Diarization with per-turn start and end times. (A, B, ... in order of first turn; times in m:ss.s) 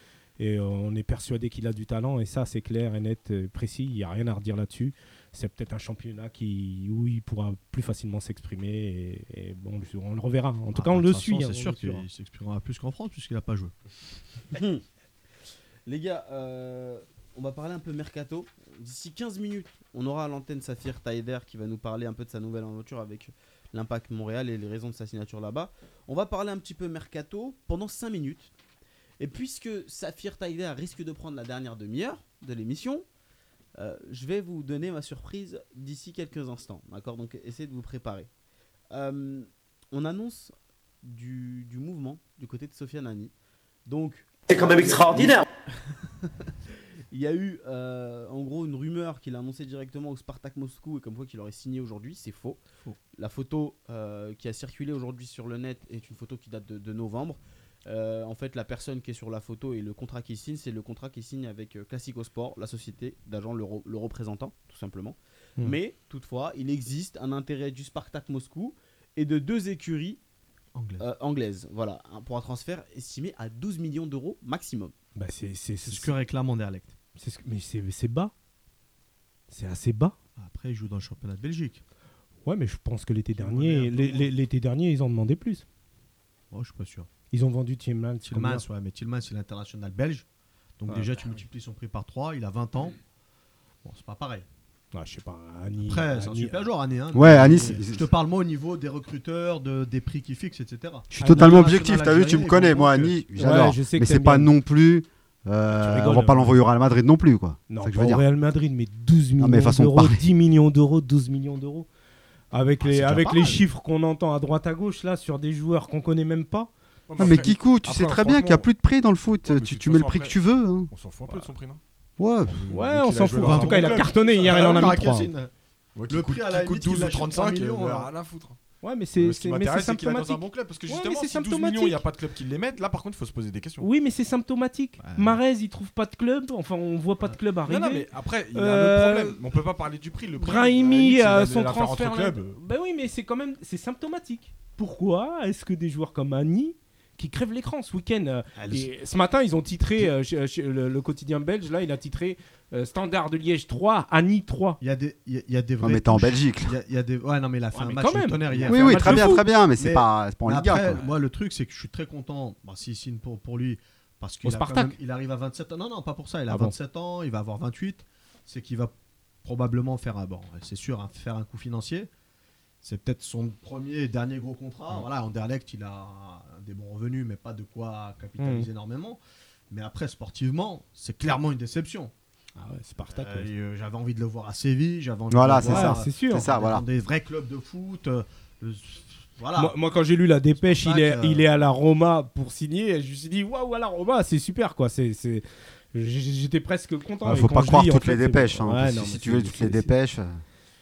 0:00.4-0:12.0 A
0:10.7-0:13.7 B
0:14.5-0:14.8 C
0:15.8-0:28.5 C
0:29.2-0:33.0 C
0:33.8-0:38.3 C
0:38.9-0:43.3 C
0:43.9-0:45.4 C
0:46.2-0:46.5 C
0:47.1-0:52.6 C
0:53.1-1:10.2 C
1:10.7-1:11.0 B
1:11.0-1:14.9 C
1:15.2-1:16.1 A
1:15.8-1:16.9 B
1:17.2-1:18.3 A
1:19.5-1:20.1 A
1:20.4-1:21.8 B
1:22.4-1:25.6 A
1:23.3-1:24.3 B
1:26.5-1:27.1 B
1:27.3-1:28.6 A
1:28.2-1:30.2 B
1:30.8-1:33.0 B
1:33.8-1:34.4 B
1:34.9-1:36.6 A
1:35.8-1:43.2 B
1:37.1-1:38.1 D
1:41.1-1:48.2 D
1:41.2-1:41.8 A
1:43.4-1:44.5 A
1:45.8-1:46.6 A
1:47.7-1:51.9 A
1:49.4-1:50.2 D
1:52.5-1:56.7 A
1:52.9-1:53.6 D
1:57.1-1:58.7 E
1:57.2-2:00.9 D
1:59.4-2:00.4 E
2:00.9-2:01.8 E
2:02.2-2:02.7 D
2:02.5-2:05.0 E
2:02.7-2:05.3 A
2:03.3-2:05.5 B
2:05.9-2:08.6 E
2:06.1-2:08.1 B
2:08.8-2:12.0 A
2:09.2-2:13.9 E
2:13.8-2:19.4 A
2:15.0-2:15.4 B
2:17.6-2:22.6 E
2:20.4-2:34.8 A
2:28.6-2:28.9 B
2:34.8-2:52.1 B
2:35.8-2:36.7 D
2:37.7-2:39.4 A
2:38.7-2:41.0 D
2:44.4-2:45.0 A
2:46.5-2:46.7 A
2:52.8-2:59.2 B
2:58.4-2:58.7 A
2:59.7-3:02.1 B
3:02.6-3:03.5 A
3:03.1-3:09.7 B
3:05.3-3:06.8 D
3:05.6-3:06.5 A
3:09.6-3:19.9 A
3:10.6-3:11.4 B
3:17.2-3:20.4 D